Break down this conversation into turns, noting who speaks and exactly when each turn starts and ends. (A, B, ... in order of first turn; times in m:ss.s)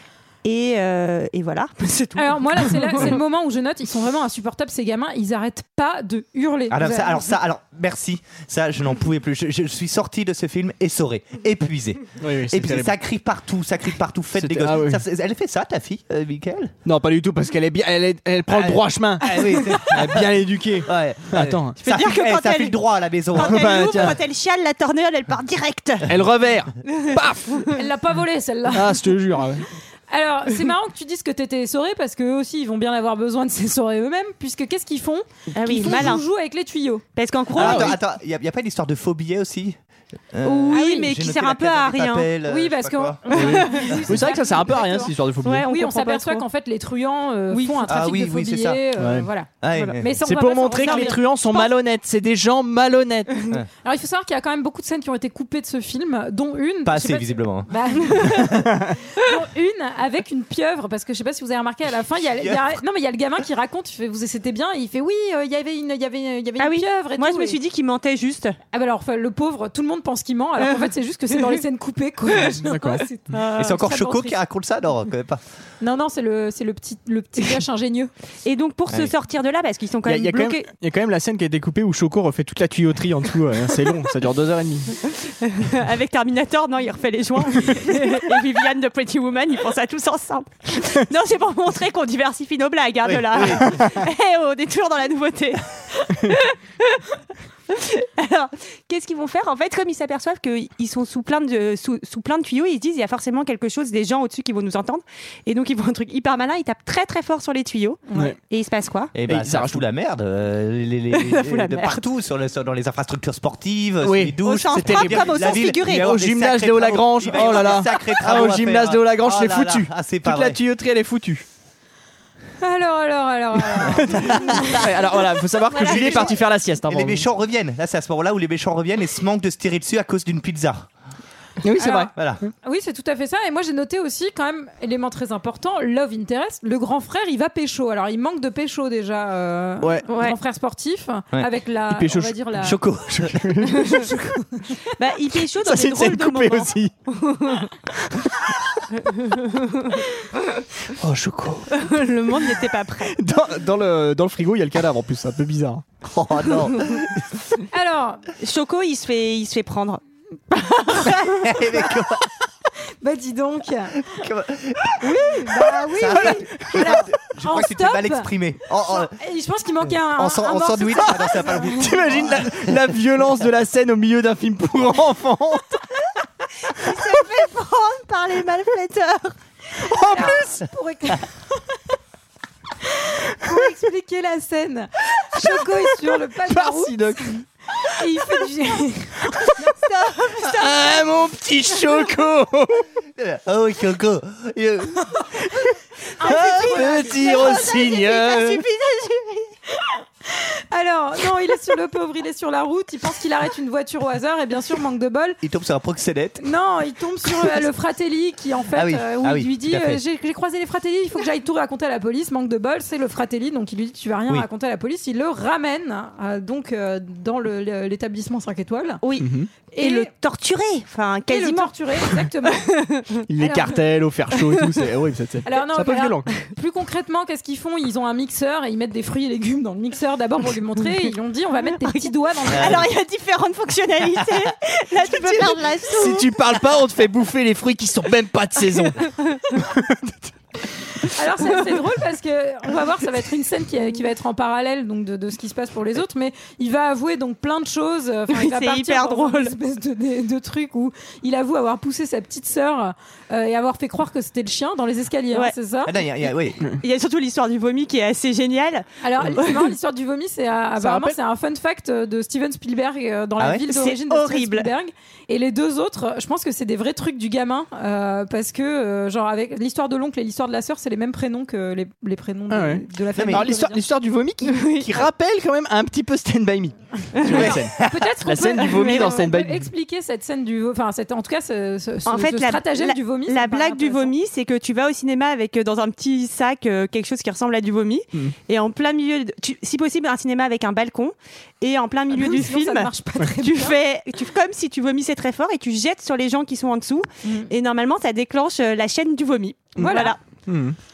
0:00.4-0:03.2 A
0:02.2-0:07.3 B
0:06.7-0:16.8 C
0:12.2-0:12.9 D
0:14.4-0:15.0 D
0:16.8-0:21.8 D
0:18.5-0:24.1 C
0:21.8-0:22.8 A
0:23.3-0:26.1 A
0:23.4-0:24.2 D
0:26.1-0:27.8 D
0:26.9-0:27.2 A
0:27.8-0:29.1 B
0:28.7-0:29.7 D
0:30.1-0:37.0 B
0:35.5-0:36.2 A
0:37.2-0:38.0 A
0:37.5-0:39.8 C
0:37.6-0:38.0 D
0:40.3-0:44.1 C
0:40.4-0:42.3 A
0:40.7-0:41.1 B
0:42.5-0:45.1 B
0:43.4-0:45.7 D
0:43.5-0:43.9 A
0:45.4-0:46.4 A
0:45.7-0:51.7 B
0:47.5-0:47.9 A
0:47.8-0:48.8 C
0:49.0-0:49.3 D
0:49.6-0:50.1 C
0:49.7-0:50.0 A
0:50.2-0:53.5 D
0:50.8-0:51.2 A
0:53.8-1:07.6 B
0:56.8-0:58.7 C
1:02.3-1:02.8 C
1:06.6-1:08.6 A
1:08.7-1:14.4 B
1:12.4-1:13.0 D
1:13.3-1:13.7 A
1:13.6-1:15.4 C
1:15.8-1:18.1 B
1:18.4-1:20.7 A
1:20.0-1:25.0 D
1:25.3-1:37.0 A
1:33.0-1:33.8 C
1:37.7-1:49.1 A
1:48.1-1:48.3 B
1:49.1-2:00.6 C
1:49.3-1:49.8 D
1:51.1-1:52.0 A
1:54.0-2:01.4 D
1:54.4-1:56.1 A
1:57.3-1:57.8 A
2:02.6-2:05.1 B
2:03.8-2:07.2 D
2:04.0-2:04.8 C
2:05.7-2:06.4 A
2:05.8-2:06.3 C
2:06.8-2:10.9 C
2:11.6-2:12.5 D
2:11.8-2:22.8 B
2:20.1-2:20.4 A
2:21.9-2:22.3 D
2:22.6-2:23.6 C
2:23.2-2:24.1 D
2:23.8-2:24.8 B
2:25.0-2:27.7 A
2:25.5-2:26.9 D
2:29.1-2:30.0 A
2:31.0-2:32.6 D
2:31.8-2:33.2 A
2:33.1-2:35.9 D
2:36.0-2:37.2 C
2:37.7-2:38.2 B
2:38.4-2:40.0 A
2:40.5-2:41.5 A
2:41.3-2:42.3 C
2:43.0-2:44.0 B
2:44.0-2:49.1 C
2:45.0-2:51.8 B
2:46.1-2:46.9 D
2:50.1-2:52.9 C
2:51.8-2:55.8 D
2:56.8-2:59.3 A
2:59.8-3:00.5 D
3:00.1-3:01.8 B
3:02.9-3:10.7 B
3:06.5-3:07.4 D
3:10.3-3:12.9 D
3:13.2-3:15.2 C
3:16.2-3:18.1 B
3:16.2-3:16.9 C
3:16.3-3:18.7 D
3:17.2-3:19.5 A
3:20.4-3:25.4 B
3:25.4-3:26.5 C
3:26.4-3:39.0 B
3:27.2-3:27.6 C
3:28.7-3:30.0 C
3:39.0-3:41.7 A
3:39.2-3:39.5 D
3:39.7-3:40.1 B
3:41.3-3:42.6 B
3:42.6-3:43.2 A
3:43.3-3:46.3 D
3:43.4-3:43.8 B
3:45.4-3:52.9 B
3:51.9-3:56.6 A
3:52.5-3:52.8 C
3:54.2-3:54.5 C
3:55.3-4:00.2 D
3:58.7-3:59.4 A
4:01.1-4:16.0 B
4:08.3-4:09.5 A
4:15.8-4:16.6 C
4:16.8-4:19.6 A
4:19.0-4:33.8 B
4:20.8-4:21.2 D
4:23.4-4:23.6 C
4:23.7-4:24.7 A
4:32.5-4:39.7 D
4:33.2-4:33.5 C
4:34.4-4:35.0 A
4:37.2-4:37.6 A
4:37.3-4:44.1 B
4:37.4-4:37.9 C
4:38.6-4:39.2 A
4:42.1-4:52.9 A
4:52.1-4:53.8 B
4:53.4-5:00.2 A
4:57.2-4:57.5 B
4:59.8-5:00.2 B
4:59.8-5:00.8 D